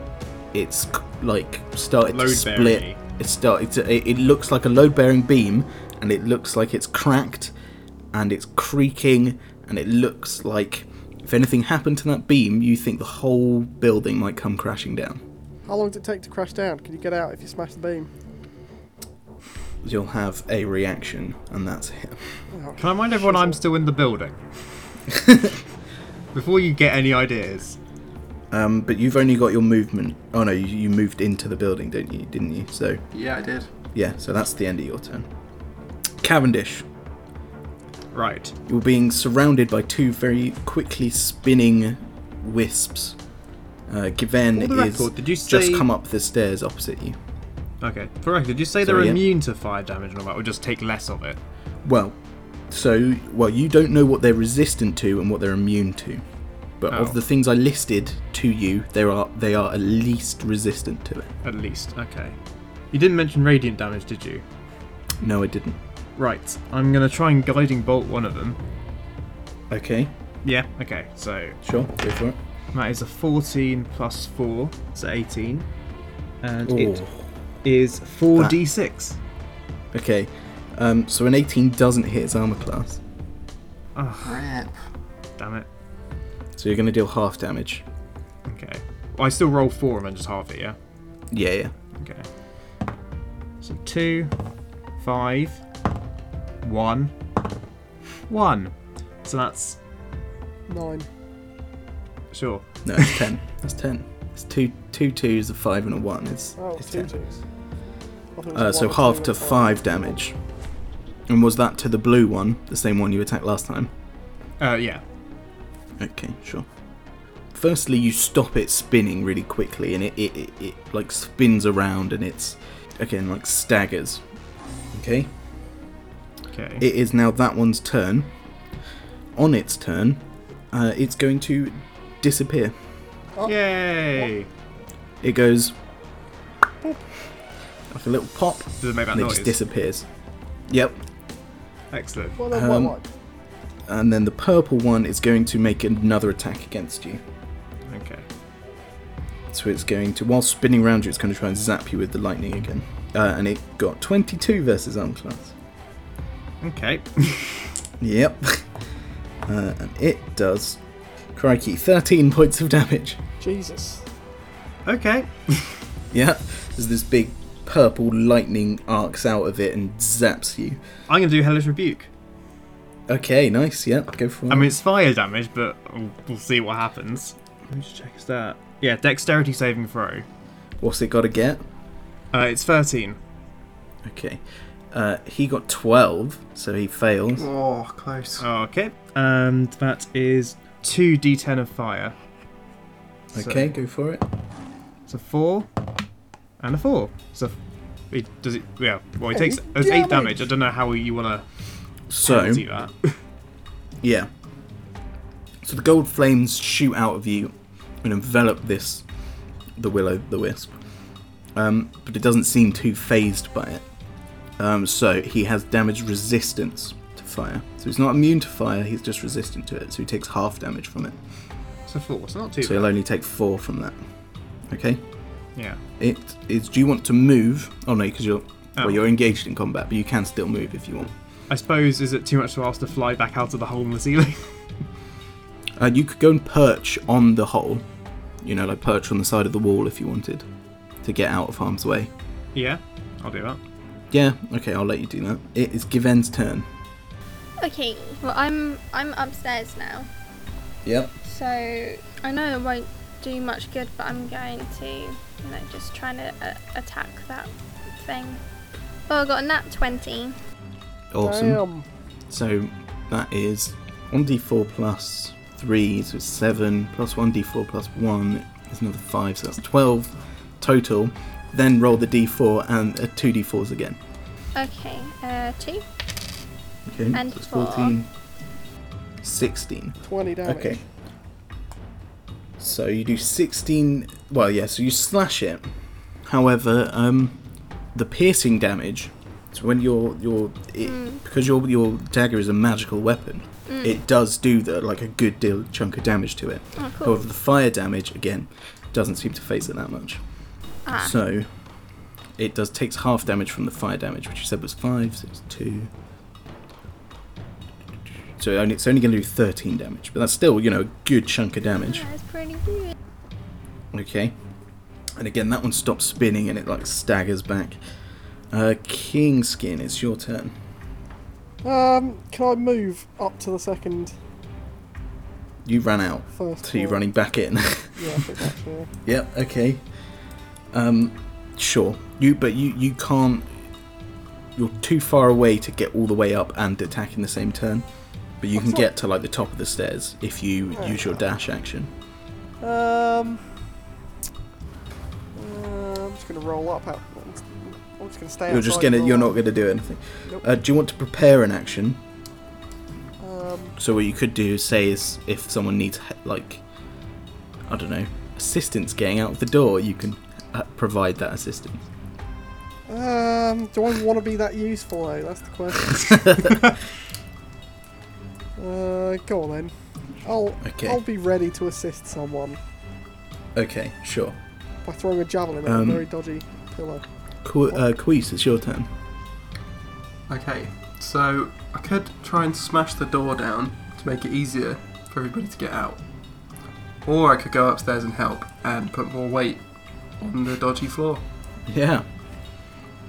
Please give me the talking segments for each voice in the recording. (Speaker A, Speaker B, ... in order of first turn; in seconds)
Speaker A: 0.5-7.5, 8.1-15.2, 19.8-22.3, 25.1-25.5, 28.5-33.0, 33.9-35.3, 36.2-36.9, 38.7-43.2, 43.9-47.2, 48.8-49.2, 51.8-52.2, 52.7-56.2, 56.8-61.3, 65.2-65.8, 69.7-70.1, 71.6-72.4, 76.7-77.3, 79.9-83.0, 86.5-87.8, 91.3-91.7, 102.8-107.1, 108.5-110.3, 111.3-113.9, 116.0-116.7, 117.5-124.2, 124.9-125.3, 126.8-128.3, 129.3-132.7, 135.2-135.8, 137.9-140.1, 140.7-141.0, 142.5-143.0, 143.9-147.2, 149.5-155.5, 158.0-158.7, 159.5-160.8, 161.3-163.2, 166.1-170.8, 173.1-174.7, 180.8-181.6, 184.0-187.5, 193.3-194.2, 202.1-202.6, 204.0-204.3, 205.6-209.0, 209.8-210.8, 211.5-213.8, 214.6-221.2, 222.6-224.0, 224.7-225.0, 226.0-231.1, 235.8-237.8, 238.4-240.4, 241.0-242.1, 244.1-246.7, 250.8-251.1, 261.1-261.6, 262.3-274.0, 276.9-278.1, 279.2-280.8, 282.6-285.7, 286.2-287.4, 287.9-300.2, 301.0-301.5, 302.4-305.9, 308.4-312.1, 313.9-314.3, 315.2-317.8, 318.5-320.5, 325.6-328.1, 329.0-329.8, 330.7-333.5, 334.6-337.8, 338.4-341.9, 348.5-352.0, 353.8-356.6, 357.7-361.9, 365.9-366.7, 370.6-371.0, 373.5-374.4, 375.6-376.0, 377.4-378.9, 391.7-392.0
Speaker B: 2.1-3.0, 22.8-24.4, 26.3-27.8, 38.1-38.5, 44.5-45.9, 47.8-51.4, 61.4-62.4, 62.9-64.4, 66.2-68.6, 70.4-71.6, 72.7-75.7, 76.4-77.0, 77.6-79.2, 84.0-84.5, 85.4-85.7, 88.5-90.8, 92.0-92.3, 93.6-94.3, 95.0-95.6, 96.6-97.1, 98.3-98.7, 99.2-99.8, 102.3-103.2, 114.6-115.0, 126.5-126.8, 133.4-134.5, 138.8-139.6, 141.9-142.4, 147.9-148.2, 156.6-157.7, 164.8-165.8, 171.1-172.1, 174.5-180.2, 182.3-183.2, 188.4-192.1, 193.3-193.7, 195.1-195.7, 196.6-197.5, 198.1-201.4, 202.2-203.2, 221.9-222.9, 231.5-234.6, 242.5-243.6
Speaker C: 15.7-18.1, 22.5-23.6, 100.7-101.1, 106.6-107.4, 108.3-110.2, 142.4-143.1, 163.4-164.0, 199.3-200.4, 261.2-261.8, 280.0-280.8, 321.6-324.1, 326.3-327.0, 327.9-328.9, 338.5-338.9, 340.7-341.0, 342.6-343.5, 345.3-349.3, 353.2-353.8, 362.9-366.2, 368.6-372.6, 374.8-377.0
Speaker D: 33.1-33.7, 84.2-84.8, 187.3-188.4, 380.3-386.0, 387.0-389.6, 390.2-391.2
Speaker E: 247.6-250.1, 251.2-258.4, 259.1-260.4, 274.5-275.8, 277.1-278.0, 290.8-291.2, 293.7-294.0, 296.8-297.2, 300.8-301.1, 311.8-312.9